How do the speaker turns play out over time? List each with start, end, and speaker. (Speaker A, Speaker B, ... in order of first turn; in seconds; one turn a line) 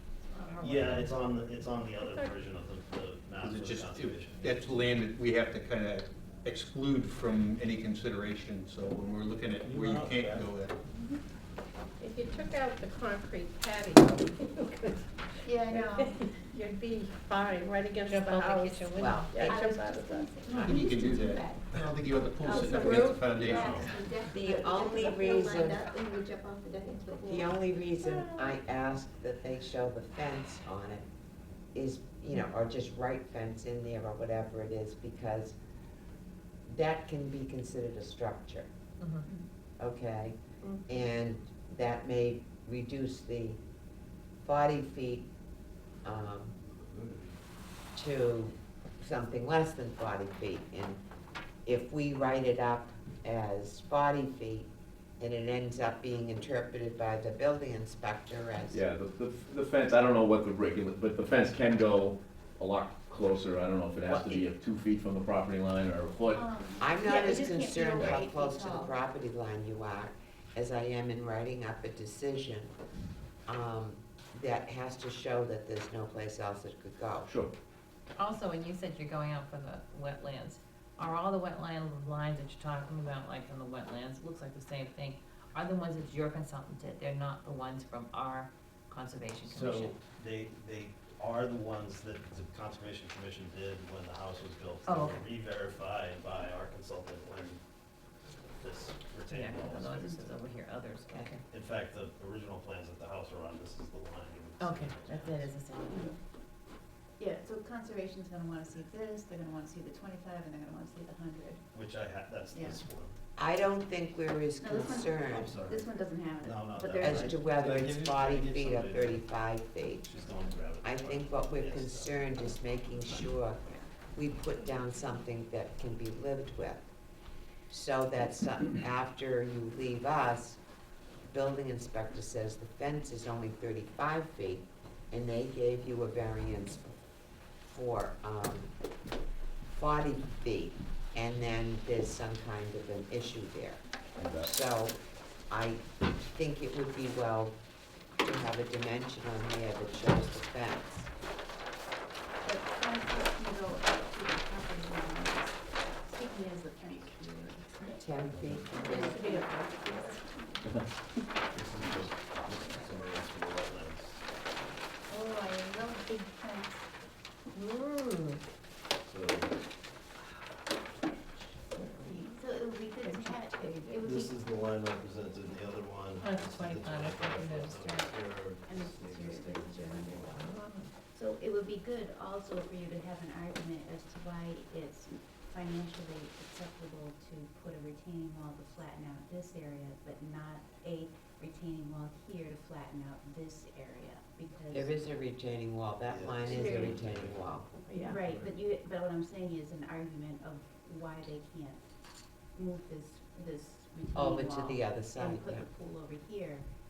Speaker A: 0.3-1.1
Speaker B: 0.6-4.8
Speaker C: 2.0-2.3
Speaker D: 3.4-10.8
Speaker B: 9.6-10.5
Speaker C: 12.0-20.4
Speaker E: 15.4-16.5
Speaker E: 18.2-18.6
Speaker A: 18.2-19.3
Speaker F: 18.9-19.6
Speaker E: 19.4-21.8
Speaker D: 20.5-23.9
Speaker E: 22.4-27.6
Speaker C: 22.6-23.2
Speaker F: 24.3-25.9
Speaker F: 27.2-31.1
Speaker F: 31.8-35.6
Speaker F: 36.7-38.7
Speaker A: 39.0-39.3
Speaker E: 39.2-39.5
Speaker F: 39.8-43.6
Speaker F: 44.4-45.3
Speaker F: 46.0-46.6
Speaker F: 48.0-51.0
Speaker F: 51.6-54.7
Speaker F: 55.2-58.8
Speaker G: 58.7-66.5
Speaker F: 64.1-64.5
Speaker E: 66.3-69.0
Speaker F: 66.8-72.7
Speaker F: 73.5-77.3
Speaker G: 77.3-77.5
Speaker A: 78.2-89.9
Speaker B: 89.5-97.6
Speaker A: 94.8-95.3
Speaker B: 98.6-100.4
Speaker A: 99.2-101.4
Speaker B: 101.5-105.5
Speaker A: 104.6-106.1
Speaker E: 107.2-111.6
Speaker B: 111.7-113.1
Speaker E: 112.5-112.8
Speaker F: 113.4-115.5
Speaker E: 114.6-117.3
Speaker B: 115.2-119.2
Speaker F: 117.0-120.1
Speaker B: 120.0-122.3
Speaker F: 120.8-123.6
Speaker F: 124.2-126.9
Speaker F: 127.7-130.6
Speaker F: 131.3-136.9
Speaker F: 137.7-138.7
Speaker F: 139.7-143.8
Speaker G: 144.2-144.5
Speaker F: 144.4-145.0
Speaker F: 145.5-145.8
Speaker F: 146.3-147.6
Speaker F: 148.2-151.1
Speaker E: 152.4-160.6
Speaker F: 158.0-159.2
Speaker C: 158.8-160.2
Speaker B: 161.5-164.2
Speaker E: 165.1-166.8
Speaker C: 167.6-168.4
Speaker B: 169.0-169.5
Speaker A: 171.8-172.2
Speaker E: 172.1-174.3
Speaker B: 174.0-180.5
Speaker A: 176.2-177.9
Speaker E: 178.7-180.4
Speaker A: 180.3-180.9
Speaker E: 181.1-194.9
Speaker F: 194.7-197.7
Speaker B: 196.1-197.4
Speaker E: 196.5-197.0
Speaker C: 197.9-198.2
Speaker E: 198.0-201.8
Speaker E: 202.6-206.7
Speaker F: 204.2-205.7